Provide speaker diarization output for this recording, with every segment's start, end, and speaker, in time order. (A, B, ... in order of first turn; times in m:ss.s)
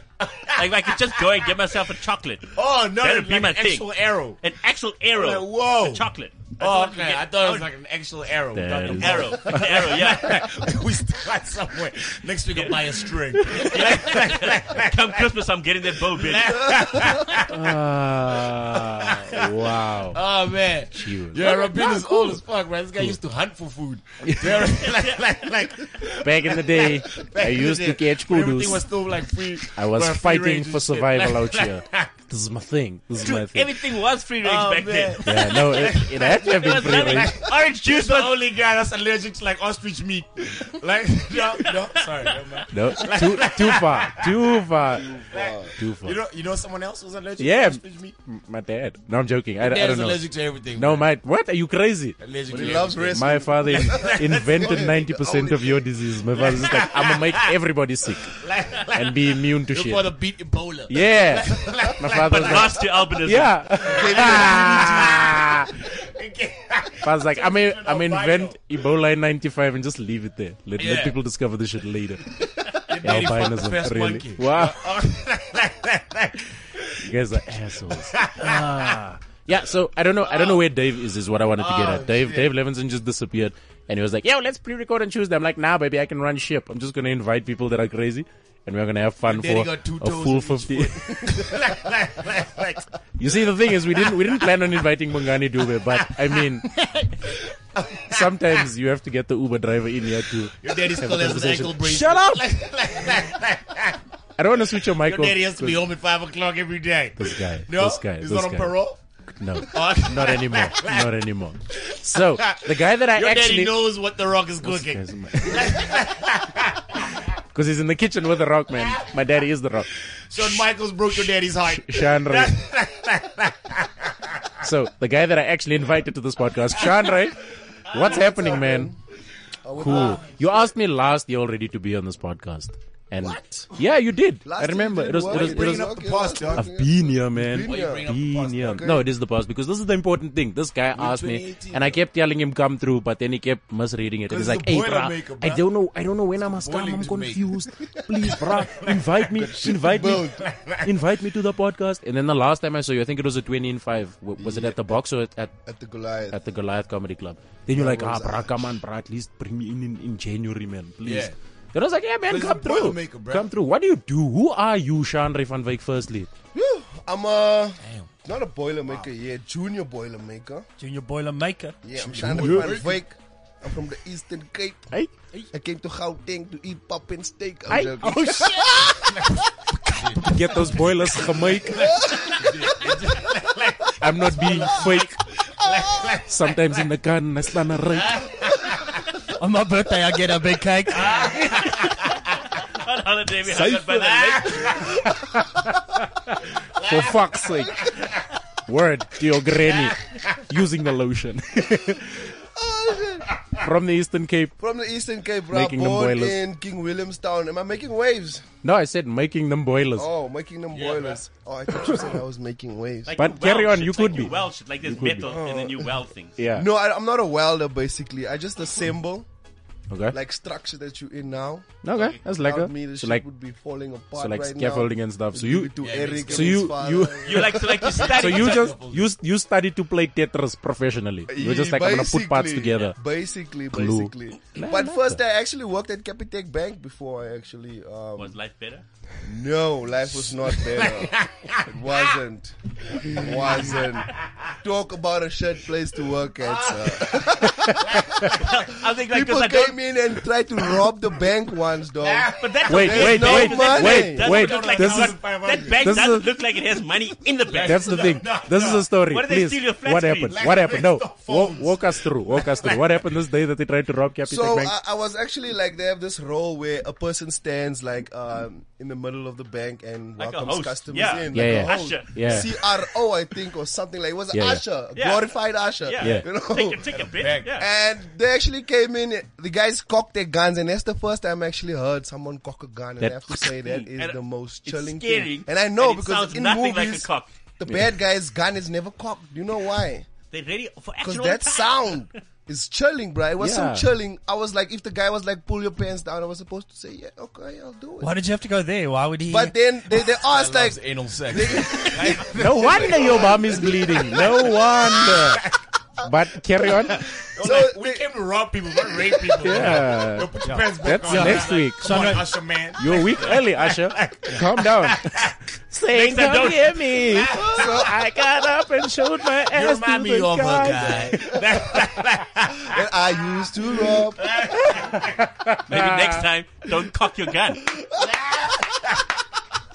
0:00.2-0:00.9 A
0:00.6-0:07.7 B
0:02.6-0:04.4 A
0:05.1-0:06.1 A
0:06.6-0:15.3 A
0:08.5-0:09.6 C
0:08.8-0:10.5 B
0:12.5-0:16.8 B
0:16.0-0:17.6 A
0:16.8-0:17.2 D
0:17.4-0:20.2 C
0:18.8-0:19.6 A
0:20.1-0:32.1 A
0:20.9-0:21.7 C
0:21.5-0:22.4 D
0:24.2-0:24.8 C
0:24.8-0:25.3 B
0:26.1-0:28.9 C
0:29.7-0:33.7 C
0:33.2-0:38.4 B
0:34.4-0:44.4 A
0:35.2-0:37.4 C
0:42.7-0:45.2 C
0:45.0-0:48.2 A
0:45.0-0:45.7 D
0:45.8-0:46.2 C
0:47.4-0:52.2 C
0:49.6-0:51.1 A
0:52.2-0:57.6 A
0:52.5-0:55.0 D
0:53.1-1:00.2 C
0:58.2-1:02.9 A
1:00.9-1:05.7 C
1:02.2-1:03.6 B
1:03.8-1:08.6 A
1:03.8-1:05.4 D
1:07.0-1:12.3 C
1:10.8-1:11.2 A
1:12.6-1:17.1 A
1:13.0-1:14.9 C
1:17.0-1:31.5 C
1:17.9-1:19.0 A
1:20.2-1:20.6 A
1:21.6-1:22.5 A
1:29.2-1:34.7 A
1:33.2-1:36.8 C
1:35.6-1:38.6 A
1:38.1-1:42.4 C
1:40.5-1:44.0 A
1:41.8-1:42.4 E
1:44.4-1:45.9 C
1:44.9-1:49.0 A
1:47.2-1:48.8 C
1:49.4-1:53.9 C
1:49.6-1:51.2 A
1:51.8-1:57.1 A
1:54.6-1:55.9 C
1:57.5-1:59.9 C
2:00.3-2:04.6 A
2:01.1-2:02.6 C
2:04.6-2:08.9 C
2:07.9-2:09.0 D
2:08.0-2:08.5 A
2:09.6-2:10.4 D
2:09.8-2:10.4 A
2:09.8-2:15.9 C
2:14.4-2:19.1 D
2:15.3-2:16.7 A
2:16.5-2:35.5 C
2:17.6-2:18.9 A
2:20.9-2:22.0 A
2:24.3-2:25.6 A
2:26.4-2:27.6 A
2:28.3-2:30.9 A
2:29.3-2:30.5 D
2:34.4-2:35.0 D
2:35.6-2:36.4 D
2:36.3-2:46.3 C
2:37.7-2:38.8 D
2:41.0-2:41.4 A
2:42.3-2:43.5 A
2:46.5-2:50.7 D
2:47.8-2:48.1 A
2:50.8-2:51.8 E
2:51.8-2:54.9 D
2:52.0-2:53.0 A
2:52.3-2:52.8 C
2:55.5-2:59.4 D
2:57.7-2:58.9 C
2:59.1-3:00.9 A
3:00.2-3:01.9 C
3:01.6-3:06.9 A
3:01.7-3:03.0 D
3:04.0-3:05.2 C
3:06.3-3:08.3 C
3:07.9-3:09.0 A
3:09.4-3:11.2 E
3:11.0-3:12.1 A
3:11.3-3:14.9 B
3:13.5-3:13.8 C
3:13.6-3:15.0 A
3:15.0-3:17.9 C
3:16.8-3:18.2 A
3:18.7-3:22.3 C
3:19.6-3:20.2 A
3:22.5-3:23.3 D
3:23.6-3:24.5 C
3:24.6-3:28.4 D
3:25.5-3:26.4 C
3:28.6-3:30.1 C
3:30.0-3:33.2 D
3:30.7-3:31.2 A
3:33.1-3:36.4 B
3:33.2-3:35.3 C
3:35.2-3:36.0 D
3:36.4-3:36.7 C
3:36.5-3:39.3 D
3:39.9-3:40.2 C
3:40.1-3:48.2 D
3:41.8-3:43.2 C
3:44.2-3:45.8 C
3:45.8-3:46.7 A
3:46.3-3:53.0 C
3:47.2-3:48.7 B
3:47.9-3:49.1 A
3:51.3-3:58.4 D
3:53.7-3:55.2 C
3:58.2-3:58.8 B
3:59.2-4:14.2 D
4:00.2-4:02.0 A
4:03.0-4:04.5 A
4:06.4-4:08.4 A
4:07.5-4:07.8 C
4:08.4-4:09.8 B
4:12.0-4:13.2 A
4:12.4-4:18.2 B
4:12.7-4:15.2 C
4:14.2-4:15.8 A
4:15.8-4:16.2 C
4:17.5-4:18.9 A
4:17.6-4:24.7 C
4:19.1-4:20.4 B
4:20.3-4:23.1 A
4:24.3-4:50.1 D
4:30.2-4:32.7 B
4:31.3-4:32.5 C
4:34.3-4:34.6 C
4:35.0-4:37.7 B
4:36.0-4:36.3 C
4:36.9-4:37.5 A
4:43.0-4:43.4 C
4:43.5-4:47.3 B
4:50.3-4:52.1 B
4:51.0-4:58.1 D
4:53.4-4:53.9 C
4:58.0-4:59.6 E
4:59.3-5:04.2 D
5:00.0-5:05.6 A
5:02.3-5:05.4 C
5:06.0-5:07.0 C
5:07.0-5:15.4 A
5:07.4-5:08.2 D
5:08.7-5:09.6 D
5:09.4-5:12.2 C
5:10.4-5:12.3 E
5:12.8-5:21.2 C
5:16.0-5:17.9 A
5:17.4-5:17.8 D
5:19.5-5:22.8 A
5:22.7-5:24.5 D
5:23.8-5:25.2 A
5:24.8-5:26.2 C
5:25.7-5:27.7 B
5:27.6-5:28.1 D
5:28.0-5:29.1 A